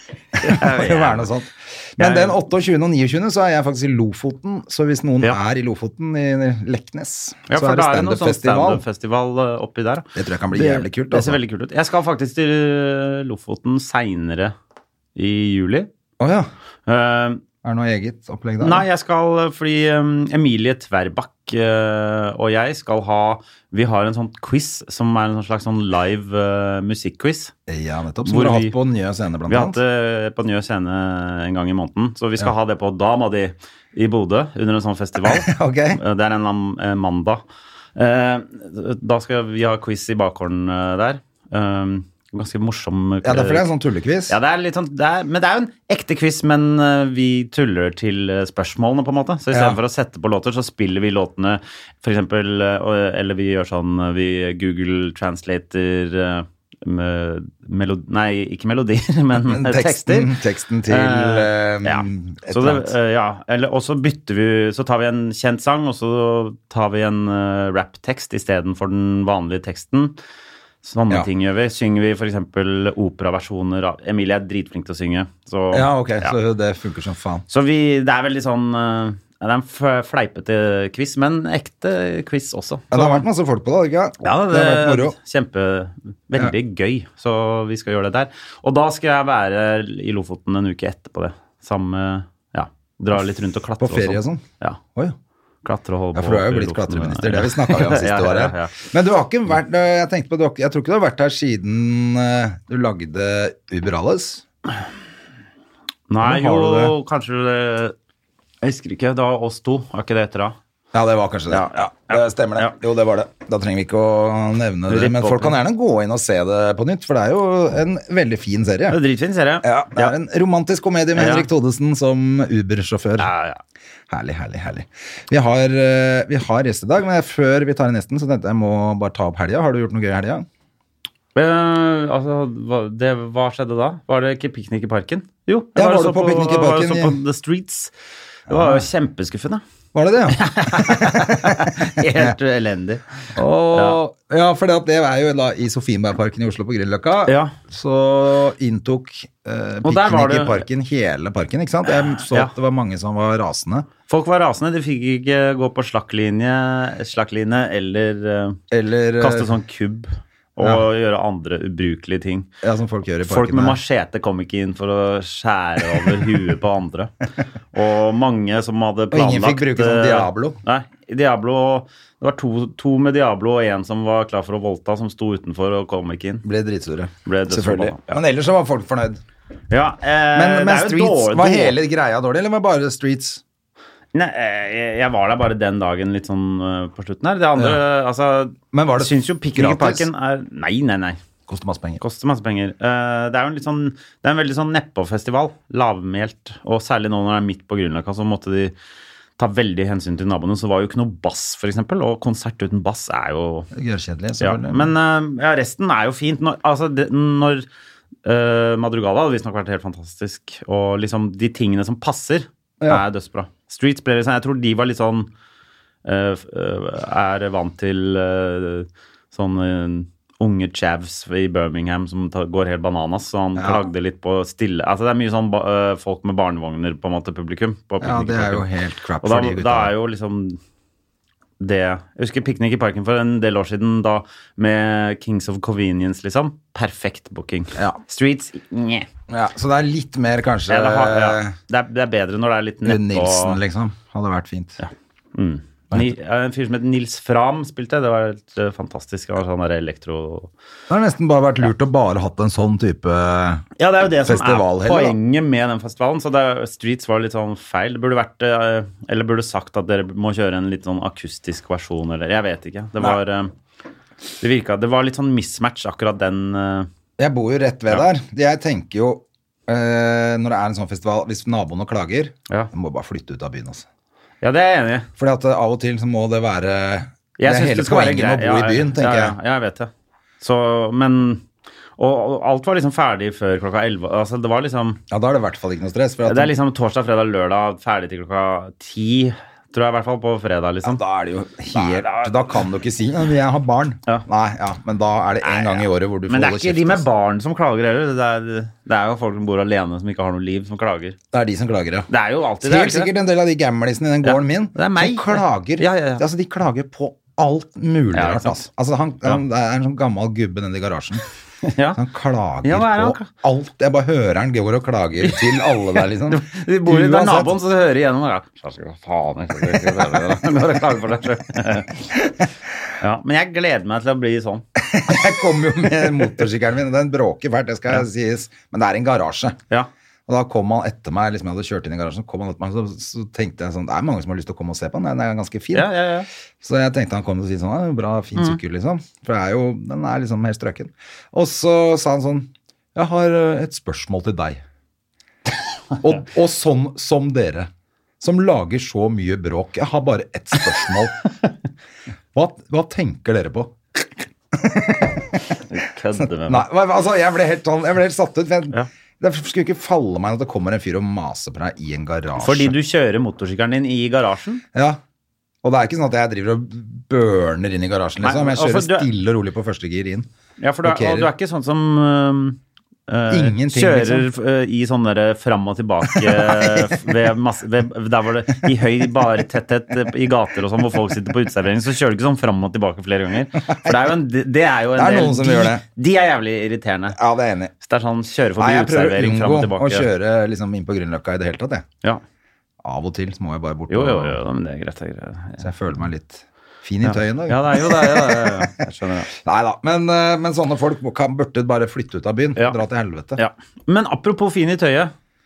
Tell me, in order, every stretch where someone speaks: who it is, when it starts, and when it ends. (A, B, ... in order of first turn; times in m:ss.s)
0:00.4-0:01.3 A
0:00.4-0:08.8 B
0:02.0-0:02.4 A
0:07.5-0:14.5 A
0:10.2-0:11.4 B
0:15.2-0:15.9 A
0:16.2-0:16.5 B
0:16.9-0:17.4 A
0:17.6-0:18.8 B
0:18.6-0:27.5 A
0:27.7-0:29.8 B
0:28.2-0:28.7 A
0:29.5-0:37.4 A
0:35.2-0:36.0 B
0:38.0-0:43.7 A
0:43.2-0:44.3 B
0:44.3-1:00.3 A
0:49.5-0:49.8 B
0:59.4-1:02.9 B
1:00.9-1:10.1 A
1:10.8-1:16.4 A
1:15.7-1:17.4 B
1:17.5-1:23.2 A
1:22.9-1:25.2 B
1:24.2-1:34.8 A
1:33.8-1:34.4 B
1:35.6-1:38.8 A
1:36.1-1:44.4 B
1:46.1-1:47.9 A
1:46.2-1:46.9 B
1:48.6-1:50.6 A
1:50.9-1:59.0 B
1:51.5-1:52.8 A
1:54.9-1:55.6 A
1:58.9-2:00.1 A
1:59.6-2:03.3 B
2:01.1-2:01.5 A
2:03.2-2:03.6 A
2:04.1-2:10.4 B
2:11.3-2:17.9 A
2:15.8-2:17.2 B
2:18.5-2:19.6 A
2:18.5-2:18.8 B
2:19.9-2:22.3 B
2:20.3-2:23.0 A
2:23.3-2:33.9 B
2:23.7-2:24.0 A
2:27.2-2:27.6 A
2:29.8-2:30.6 A
2:31.9-2:32.5 A
2:34.1-2:38.6 A
2:38.7-2:39.5 B
2:39.2-2:42.5 A
2:40.6-2:40.8 B
2:42.6-2:43.8 B
2:43.2-2:47.1 A
2:47.7-2:56.4 A
2:49.1-2:50.6 B
2:56.4-2:59.2 B
2:57.2-2:58.2 A
2:59.7-3:01.8 A
3:00.3-3:03.4 B
3:04.1-3:11.2 A
3:08.7-3:10.1 B
3:11.5-3:12.0 B
3:12.0-3:18.7 A
3:19.4-3:23.7 A
3:23.7-3:24.9 B
3:24.4-3:27.6 A
3:28.2-3:35.3 A
3:36.0-3:48.7 A
3:43.6-3:43.8 B
3:48.0-3:49.9 B
3:49.2-3:50.6 A
3:51.6-3:59.1 A
3:59.3-4:01.5 B
4:00.7-4:03.6 A
4:02.8-4:04.8 B
4:04.8-4:10.5 A
4:10.9-4:13.6 B
4:13.8-4:23.5 A
4:14.2-4:15.2 B
4:24.4-4:26.9 A
4:27.2-4:33.8 B
4:34.4-4:35.1 A
4:35.2-4:39.4 B
4:37.4-4:39.9 A
4:40.4-4:41.4 A
4:42.0-4:45.0 A
4:45.1-4:46.5 B
4:46.2-4:51.0 A
4:50.8-4:57.0 B
4:51.7-4:52.4 A
4:55.4-5:01.2 A
5:01.3-5:02.1 B
5:02.1-5:03.1 A
5:02.6-5:11.2 B
5:04.2-5:06.2 A
5:08.1-5:08.6 A
5:11.6-5:12.0 A
5:11.9-5:17.6 B
5:12.6-5:13.3 A
5:15.2-5:22.0 A
5:19.6-5:20.3 B
5:23.0-5:24.6 A
5:24.8-5:29.6 B
5:30.3-5:35.9 B
5:35.7-5:36.3 A
5:36.6-5:44.6 B
5:46.0-5:47.7 B
5:48.2-5:51.3 B
5:52.3-5:53.7 B
5:54.5-5:55.4 B
5:55.7-5:56.7 A
5:56.1-6:02.7 B
6:02.4-6:04.6 A
6:04.7-6:05.0 B
6:05.6-6:10.3 B
6:08.2-6:09.1 A
6:10.6-6:27.2 A
6:10.8-6:11.3 B
6:13.3-6:14.3 B
6:16.0-6:17.1 B
6:23.7-6:24.0 B
6:24.9-6:25.8 B
6:27.1-6:27.7 B
6:27.8-6:30.1 A
6:28.6-6:31.9 B
6:32.8-6:34.4 B
6:33.9-6:35.7 A
6:35.6-6:43.4 B
6:37.0-6:39.3 A
6:43.4-6:45.1 A